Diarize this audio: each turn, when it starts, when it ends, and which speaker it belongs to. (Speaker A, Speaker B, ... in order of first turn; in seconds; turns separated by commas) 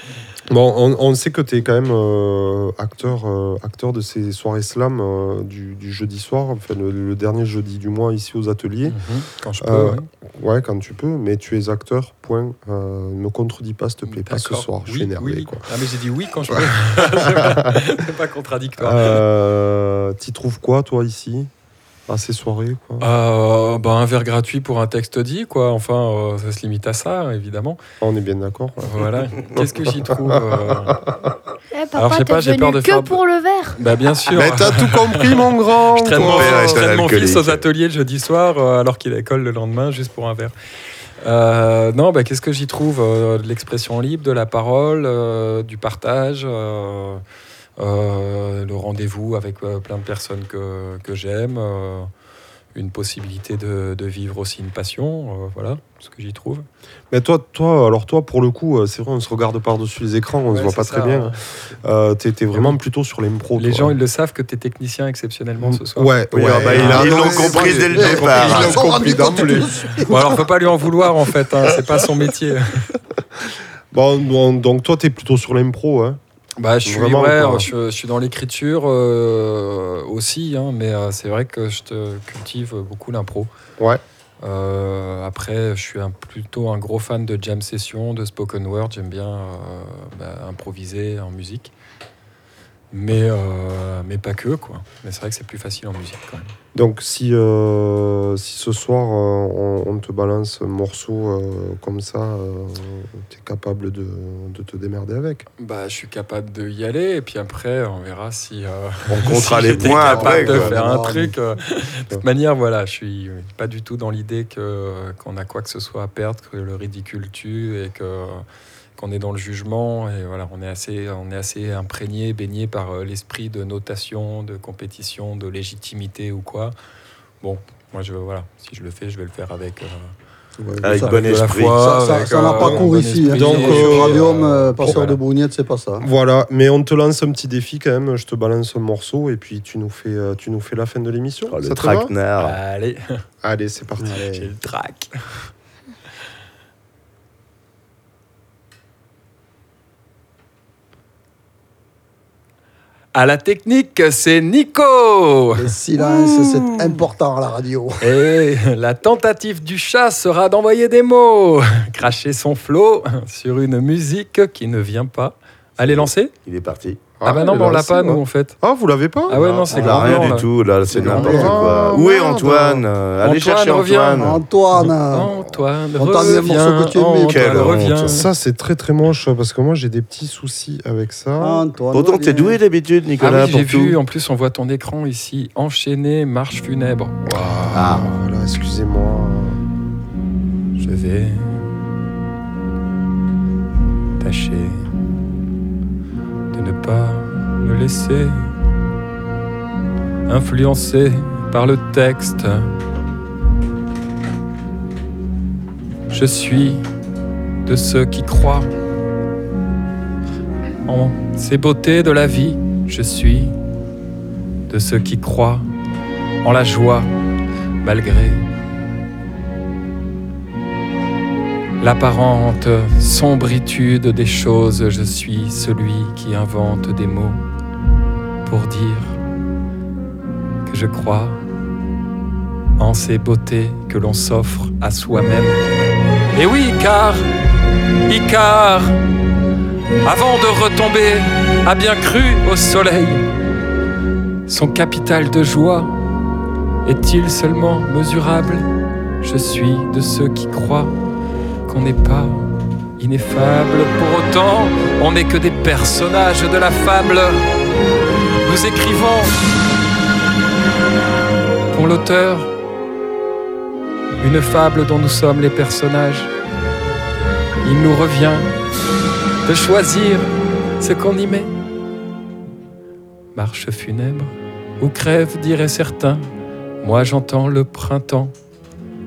Speaker A: 0.5-9.0, Speaker B: 8.9-10.1, Speaker A: 9.6-15.7, Speaker B: 14.0-19.2, Speaker A: 16.5-17.9, Speaker A: 18.8-21.5, Speaker A: 22.1-23.1, Speaker B: 23.0-27.8, Speaker A: 28.0-31.4, Speaker B: 28.8-31.0, Speaker C: 31.7-33.8, Speaker B: 31.9-33.2, Speaker B: 33.8-40.5, Speaker A: 34.3-36.8, Speaker D: 36.1-37.6, Speaker B: 41.2-47.2, Speaker B: 47.8-52.1, Speaker B: 52.8-56.7, Speaker A: 57.1-64.0, Speaker B: 60.5-61.4, Speaker B: 63.6-66.2, Speaker A: 65.6-69.7, Speaker D: 66.3-69.2, Speaker E: 66.7-70.4, Speaker B: 66.7-67.3, Speaker B: 68.2-72.9, Speaker A: 73.9-76.2, Speaker B: 76.6-83.5, Speaker A: 76.8-77.7, Speaker B: 84.4-91.7, Speaker B: 92.9-96.5, Speaker A: 96.7-105.5, Speaker B: 105.6-118.4, Speaker D: 109.1-110.8, Speaker E: 109.8-111.4, Speaker B: 119.0-126.8, Speaker B: 127.4-130.2, Speaker E: 130.6-136.1, Speaker D: 130.8-131.8, Speaker B: 131.0-135.2, Speaker A: 132.6-135.1, Speaker A: 136.0-142.1, Speaker D: 141.5-142.6, Speaker B: 142.4-143.2, Speaker A: 143.4-144.2, Speaker E: 144.0-144.5, Speaker B: 144.3-145.5, Speaker B: 153.1-156.4, Speaker E: 155.6-158.2, Speaker B: 158.0-166.3, Speaker D: 165.8-167.0, Speaker A: 167.2-169.4, Speaker B: 167.2-168.6, Speaker B: 169.3-170.5, Speaker D: 169.3-174.4, Speaker E: 169.7-170.2, Speaker E: 170.9-171.8, Speaker A: 170.9-172.8, Speaker B: 173.2-178.3, Speaker E: 174.2-175.3, Speaker E: 175.9-177.6, Speaker D: 177.3-178.2, Speaker A: 178.1-181.7, Speaker E: 181.4-182.6, Speaker D: 181.9-184.0, Speaker B: 183.2-188.1, Speaker A: 187.3-189.6, Speaker D: 187.7-188.1, Speaker B: 190.8-191.7, Speaker B: 194.2-194.9, Speaker B: 196.5-198.5, Speaker B: 200.3-202.7, Speaker B: 206.1-206.8, Speaker B: 207.7-208.7, Speaker B: 210.9-213.6, Speaker B: 214.7-215.7, Speaker B: 216.4-217.1, Speaker B: 217.8-218.4, Speaker B: 221.8-227.4, Speaker B: 228.4-229.2, Speaker B: 230.7-231.4, Speaker B: 232.8-235.6, Speaker B: 236.3-237.3, Speaker B: 238.1-239.0, Speaker B: 240.0-243.3, Speaker B: 244.5-245.9, Speaker B: 246.8-248.7, Speaker B: 249.2-250.9, Speaker B: 251.7-257.5, Speaker B: 258.4-259.3, Speaker B: 261.7-262.5, Speaker B: 264.2-266.3, Speaker B: 267.6-268.5, Speaker B: 269.4-271.5, Speaker B: 273.4-276.3, Speaker B: 276.8-278.3